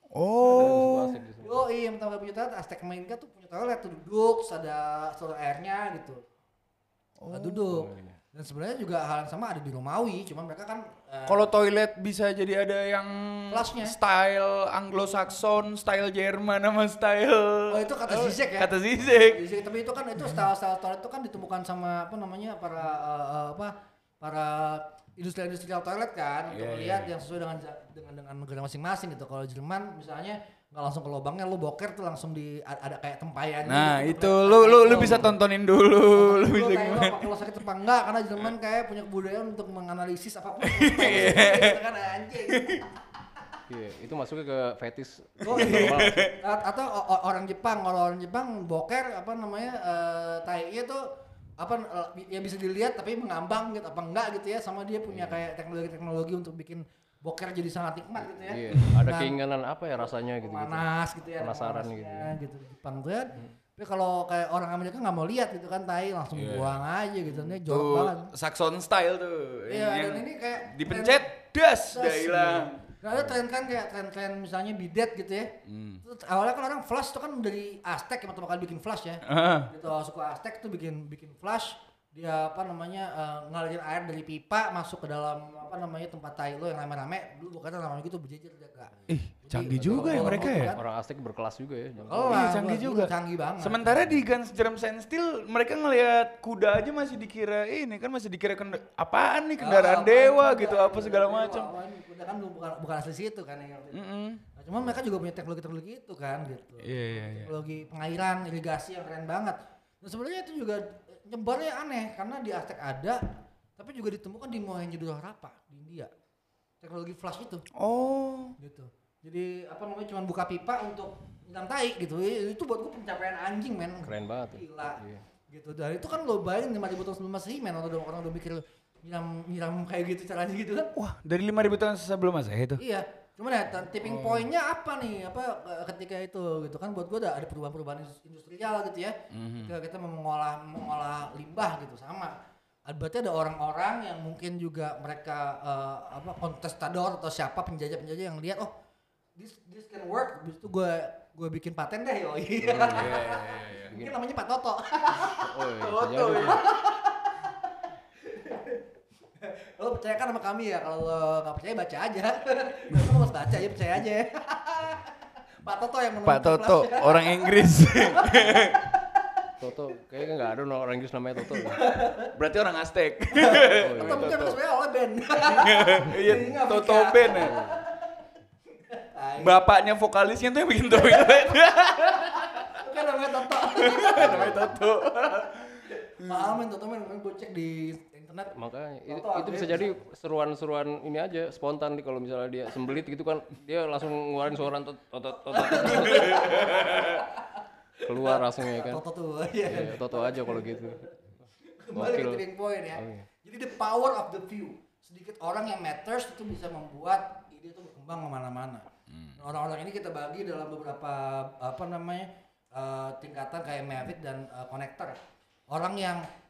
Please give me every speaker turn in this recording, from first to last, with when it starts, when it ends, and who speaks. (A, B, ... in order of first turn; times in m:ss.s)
0:00.1-0:01.2 A
0:00.5-0:01.6 B
0:00.5-0:06.2 C
0:07.2-0:07.7 A
0:07.3-0:11.5 C
0:07.7-0:08.2 B
0:11.3-0:19.4 A
0:13.5-0:14.0 C
0:17.7-0:35.3 C
0:26.5-0:27.1 A
0:33.7-0:37.3 A
0:34.9-0:35.3 B
0:36.1-0:42.8 C
0:40.6-0:41.8 A
0:42.4-0:42.8 A
0:43.7-0:46.3 B
0:45.4-0:59.4 C
0:45.5-0:46.3 A
0:55.1-0:55.4 B
0:58.4-1:00.9 B
1:00.4-1:08.3 C
1:01.4-1:02.3 B
1:06.3-1:06.8 A
1:07.3-1:07.5 B
1:07.6-1:12.8 A
1:09.7-1:11.3 C
1:11.9-1:30.8 C
1:15.6-1:16.0 A
1:19.2-1:19.7 A
1:29.1-1:30.7 A
1:29.7-1:32.5 B
1:32.0-1:33.9 C
1:32.3-1:41.7 A
1:39.6-1:44.0 C
1:43.9-1:44.4 A
1:44.5-1:56.1 C
1:46.8-1:47.5 A
1:56.8-1:57.6 C
1:57.8-1:58.6 A
1:58.6-2:10.9 C
2:04.0-2:05.2 B
2:11.0-2:12.8 A
2:12.8-2:22.4 C
2:14.0-2:14.5 A
2:19.3-2:19.7 A
2:22.9-2:28.7 C
2:29.4-2:35.5 C
2:32.7-2:33.2 B
2:32.7-2:34.0 A
2:33.8-2:34.2 B
2:35.4-2:36.7 B
2:35.8-2:36.8 A
2:36.5-2:37.6 C
2:38.2-2:38.8 C
2:39.4-2:49.5 C
2:46.2-2:48.8 A
2:49.6-2:51.8 B
2:51.7-2:52.3 C
2:52.3-2:54.6 A
2:53.4-2:58.2 C
2:53.8-2:54.4 B
2:55.4-2:57.6 A
2:57.4-2:57.7 B
2:58.9-2:59.6 C
2:59.4-3:02.8 A
3:01.0-3:04.8 C
3:03.6-3:06.5 A
3:06.2-3:08.5 C
3:08.5-3:16.8 B
3:09.0-3:10.0 C
3:15.4-3:35.2 C
3:16.0-3:17.2 A
3:18.0-3:19.0 B
3:19.6-3:23.3 B
3:29.1-3:29.4 A
3:35.7-3:36.3 C